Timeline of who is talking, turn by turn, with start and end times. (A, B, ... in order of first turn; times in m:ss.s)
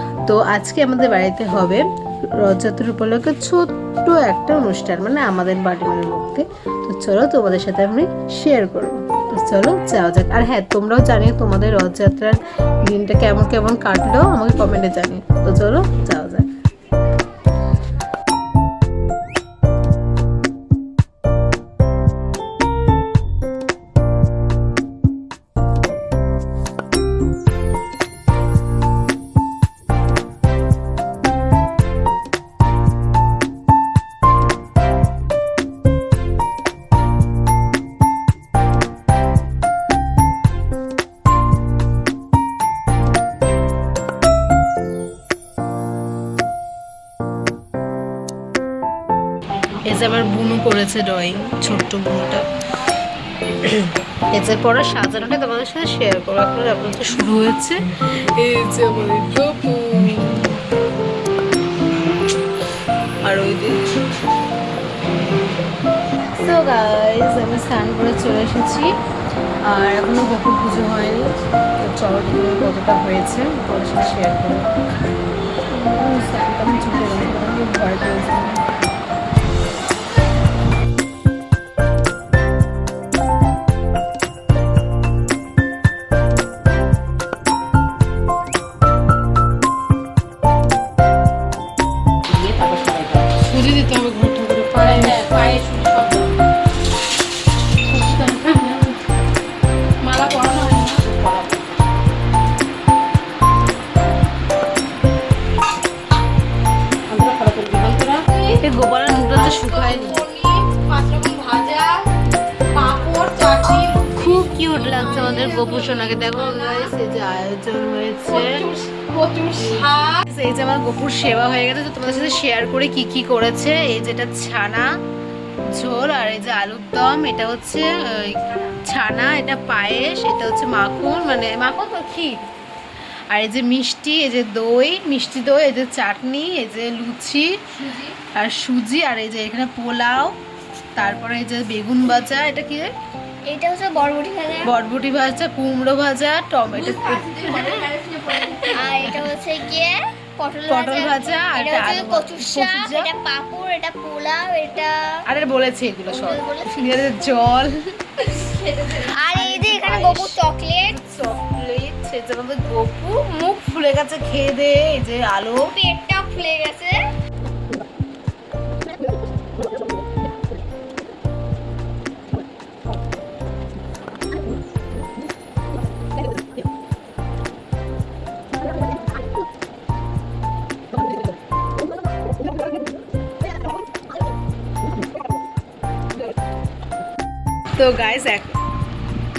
0:00.3-0:16.5 A
0:49.7-0:52.5 A
0:53.5-1:00.6 A
1:03.2-1:03.9 A
1:06.3-1:08.9 A
1:09.7-1:14.7 A
1:15.7-1:18.7 A
1:32.3-1:33.3 B
1:33.3-1:35.2 A
1:34.8-1:36.4 B
1:37.8-1:39.0 B
1:40.0-1:41.6 B
1:47.1-1:48.6 B
1:48.6-1:50.2 A
1:49.3-1:52.1 B
1:52.7-1:56.9 B
1:54.1-1:58.7 A
1:58.3-2:00.2 B
1:59.5-2:04.9 A
2:05.7-2:12.5 A
2:13.3-2:20.4 A
2:21.0-2:22.9 A
2:23.4-2:24.7 C
2:24.6-2:27.8 A
2:26.7-2:29.0 B
2:27.6-2:27.9 C
2:28.6-2:35.3 C
2:30.7-2:33.1 A
2:35.3-2:45.8 A
2:36.1-2:36.9 C
2:38.5-2:38.9 B
2:39.0-2:41.0 C
2:45.7-2:47.0 C
3:07.8-3:08.6 A